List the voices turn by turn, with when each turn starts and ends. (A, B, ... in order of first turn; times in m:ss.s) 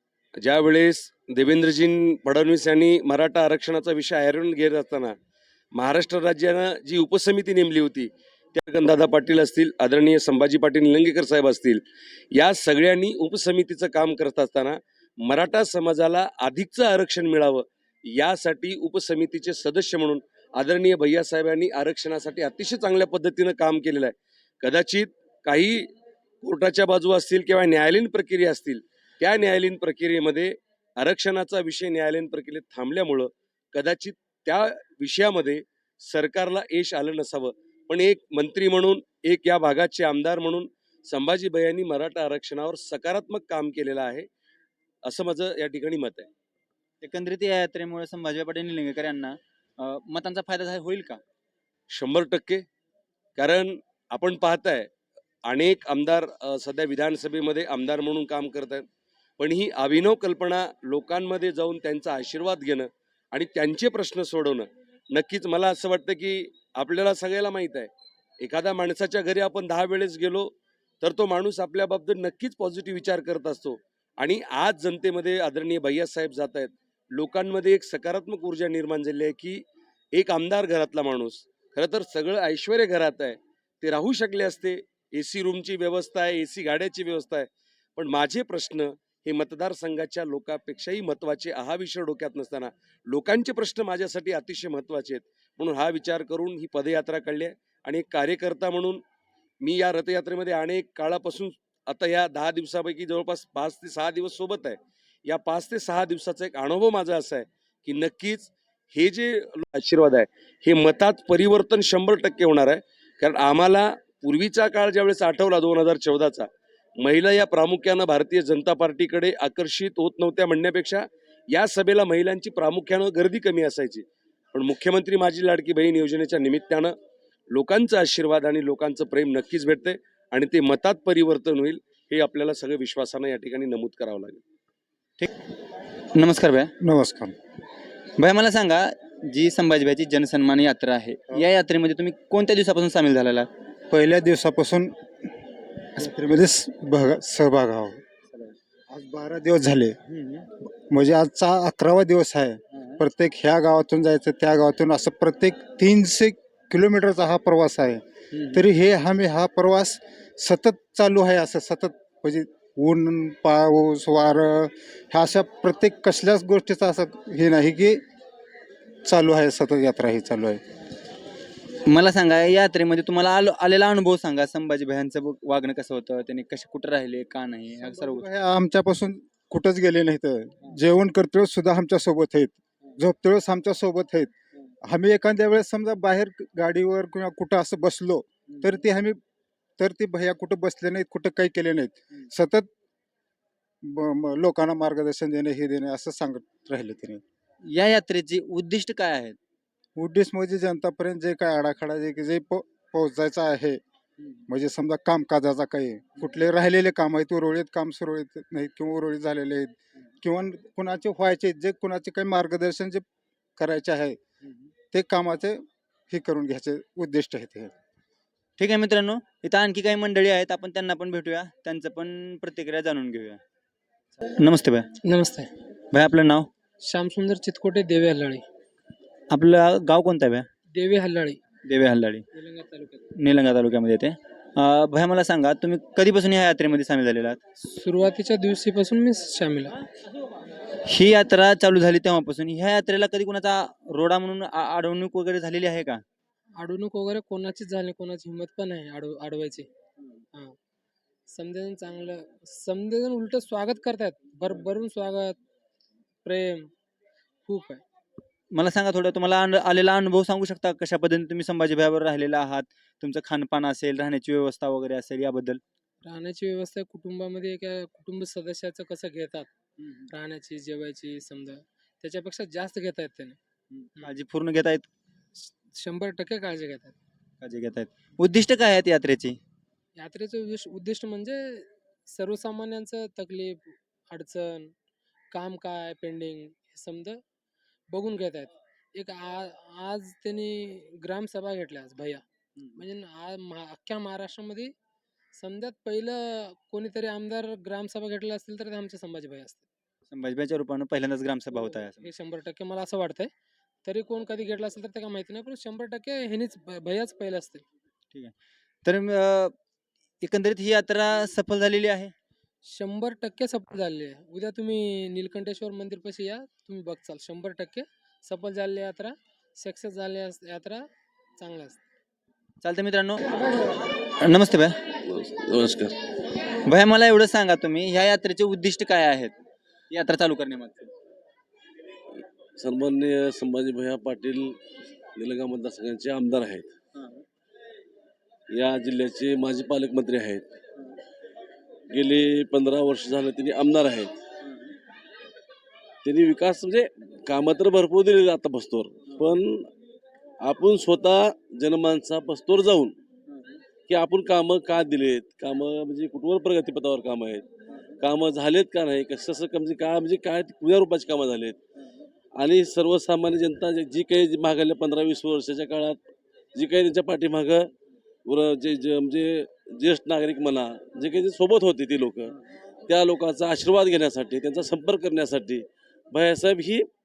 0:00.4-0:05.2 A
0:05.7-0:11.8 A
0:12.3-0:25.9 A
0:26.4-0:44.3 A
0:45.0-0:46.3 A
0:47.0-0:51.2 B
0:51.9-0:52.6 A
0:53.4-0:54.9 A
0:55.4-0:58.8 A
0:59.4-1:07.9 A
1:08.4-1:39.0 A
1:39.6-1:56.5 A
1:57.0-2:06.9 A
2:07.5-2:14.4 A
2:16.1-2:16.7 B
2:16.8-2:17.3 C
2:18.2-2:23.5 B
2:23.9-2:25.3 C
2:25.9-2:28.0 C
2:28.9-2:48.0 C
2:49.0-2:50.6 C
2:51.9-2:58.3 B
2:57.8-3:04.3 C
3:04.8-3:09.2 C
3:09.8-3:12.7 C
3:13.8-3:17.2 C
3:17.6-3:19.4 B
3:20.0-3:23.8 C
3:24.5-3:33.0 C
3:33.6-3:34.2 C
3:34.9-3:37.7 C
3:38.6-3:43.4 B
3:44.2-3:44.9 B
3:45.0-3:45.5 D
3:45.9-3:46.5 B
3:46.8-3:48.4 D
3:49.3-3:50.5 B
3:50.7-3:51.4 D
3:51.6-3:52.2 B
3:52.3-3:53.0 D
3:53.1-3:57.4 B
3:57.6-3:59.8 D
4:00.8-4:06.0 B
4:06.6-4:09.7 D
4:11.3-4:15.4 D
4:16.2-4:16.7 D
4:17.4-4:17.8 D
4:18.5-4:25.6 B
4:26.0-4:29.5 D
4:30.1-4:33.4 D
4:33.8-4:34.9 B
4:35.4-4:37.0 D
4:37.4-4:39.4 B
4:40.0-4:44.7 D
4:45.3-4:47.2 D
4:47.9-4:52.2 D
4:52.8-4:54.7 D
4:55.4-4:59.6 D
5:00.1-5:02.1 B
5:02.0-5:03.3 D
5:03.8-5:07.6 D
5:08.8-5:09.6 B
5:10.2-5:12.1 B
5:12.6-5:21.8 D
5:22.6-5:23.6 B
5:24.2-5:24.8 B
5:25.0-5:26.0 E
5:26.6-5:29.4 B
5:29.9-5:30.9 B
5:32.6-5:34.6 E
5:35.1-5:36.7 E
5:38.5-5:40.4 E
5:41.9-5:44.2 E
5:46.0-5:49.7 E
5:50.4-5:52.9 E
5:53.9-5:57.4 E
5:58.0-6:01.6 E
6:02.4-6:06.0 E
6:06.5-6:07.7 E
6:08.2-6:12.3 E
6:12.9-6:16.9 E